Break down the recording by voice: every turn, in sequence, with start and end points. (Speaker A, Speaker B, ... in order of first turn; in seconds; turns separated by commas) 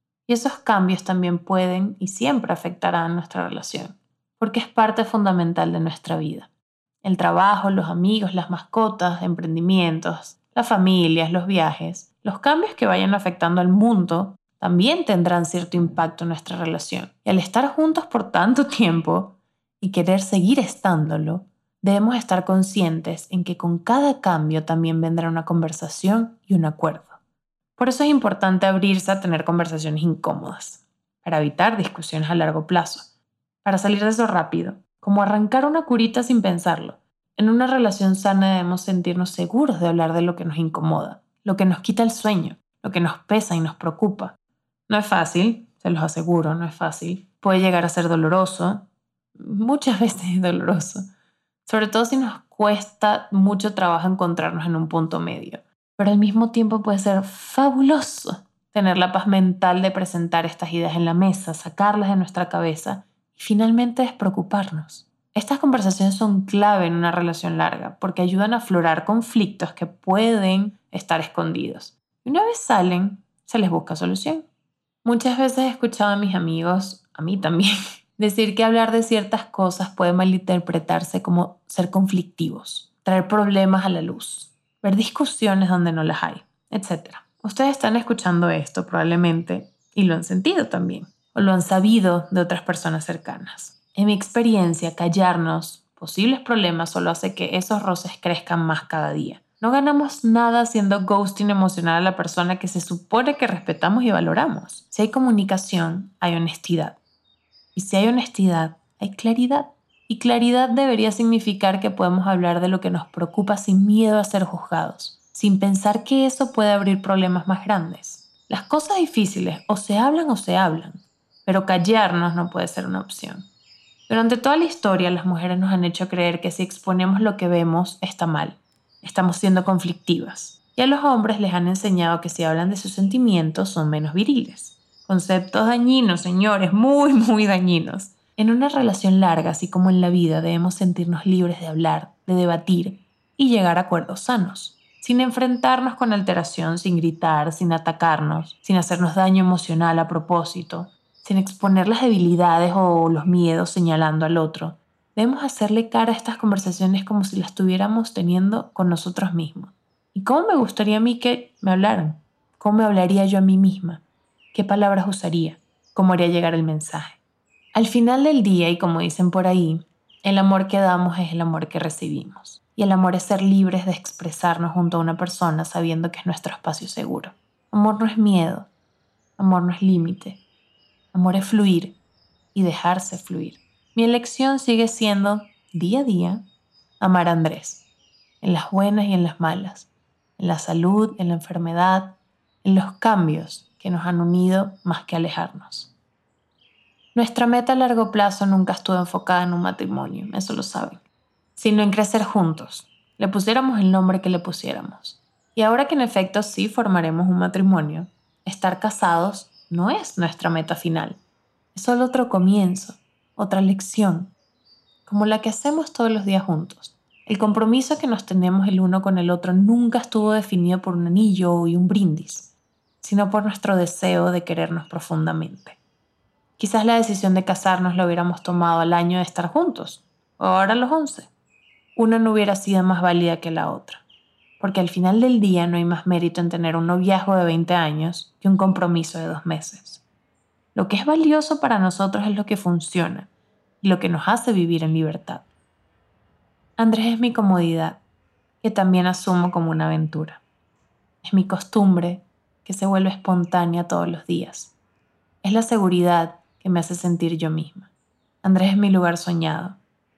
Speaker A: 0.3-6.5, Speaker A: 7.0-27.2, Speaker A: 27.8-33.1, Speaker A: 33.6-44.4, Speaker A: 44.9-48.9, Speaker A: 49.4-51.1, Speaker A: 51.7-74.5, Speaker A: 75.0-107.0, Speaker A: 107.8-123.5, Speaker A: 124.1-167.2, Speaker A: 167.8-178.7, Speaker A: 179.4-180.4, Speaker A: 181.1-182.0, Speaker A: 182.5-186.4, Speaker A: 187.0-187.8, Speaker A: 188.4-195.9, Speaker A: 197.2-201.0, Speaker A: 201.6-211.2, Speaker A: 211.7-214.3, Speaker A: 215.1-225.8, Speaker A: 226.6-231.3, Speaker A: 231.9-234.0, Speaker A: 234.6-240.0, Speaker A: 240.8-243.3, Speaker A: 243.8-245.4, Speaker A: 246.8-248.0, Speaker A: 248.6-250.4, Speaker A: 251.2-254.8, Speaker A: 255.4-257.9, Speaker A: 258.4-259.8